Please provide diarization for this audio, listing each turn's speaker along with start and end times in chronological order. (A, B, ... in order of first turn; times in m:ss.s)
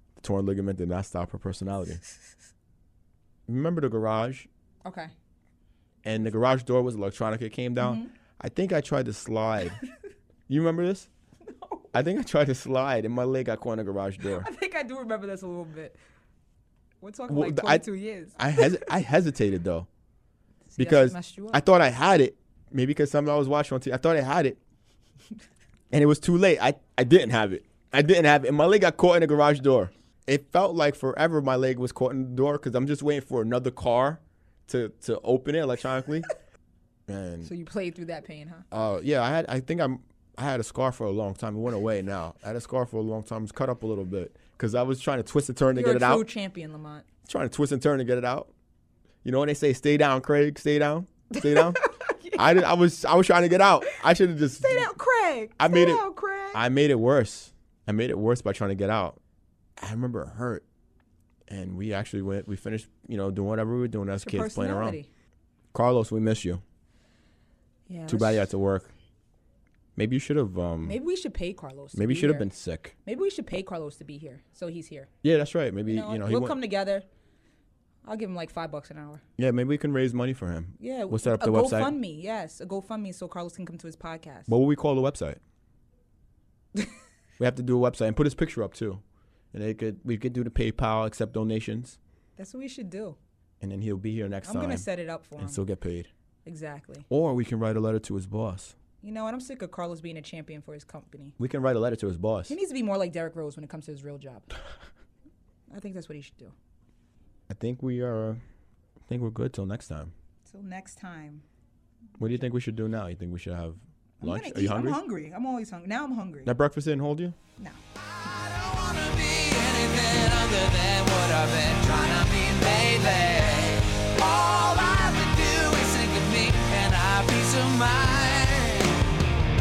0:00.2-0:02.0 A
0:03.5-0:04.5 A
0:04.8-0:05.1 B
0:06.0-0:09.8 A
0:07.8-0:08.1 B
0:10.5-0:11.1 A
0:11.5-0:11.9 B
0:11.9-0:14.5 A
0:14.2-0:16.0 B
0:17.0-0:18.9 B
0:17.3-0:19.9 A
0:20.7-0:21.6 B
0:20.8-0:24.6 A
0:25.9-0:36.3 A
0:37.1-0:37.5 A
0:37.4-0:38.6 B
0:38.7-0:46.2 A
0:45.7-0:47.0 B
0:47.2-0:48.5 A
0:49.2-0:51.8 A
0:51.3-0:52.6 B
0:52.3-0:54.9 A
0:54.6-0:56.6 B
0:55.6-0:59.2 A
0:59.8-1:00.6 A
1:01.5-1:05.0 A
1:04.2-1:05.1 B
1:05.7-1:06.6 A
1:07.9-1:08.5 B
1:08.1-1:08.9 A
1:10.0-1:11.0 A
1:10.8-1:12.5 B
1:11.9-1:12.9 A
1:13.0-1:15.1 B
1:15.2-1:16.6 A
1:15.8-1:17.0 B
1:18.0-1:19.2 B
1:19.4-1:22.0 A
1:20.8-1:24.5 B
1:24.5-1:25.4 A
1:27.4-1:29.0 A
1:29.5-1:32.0 A
1:32.4-1:33.2 B
1:33.6-1:34.9 A
1:34.4-1:35.6 B
1:35.4-1:36.1 A
1:36.4-1:37.1 B
1:37.1-1:38.8 A
1:39.0-1:41.3 B
1:41.4-1:42.6 A
1:42.5-1:44.5 B
1:45.7-1:46.5 B
1:47.5-1:48.4 A
1:49.1-1:50.1 A
1:50.4-1:51.4 B
1:52.2-1:55.0 A
1:54.2-1:56.5 B
1:56.4-1:57.4 A
1:58.0-2:09.0 C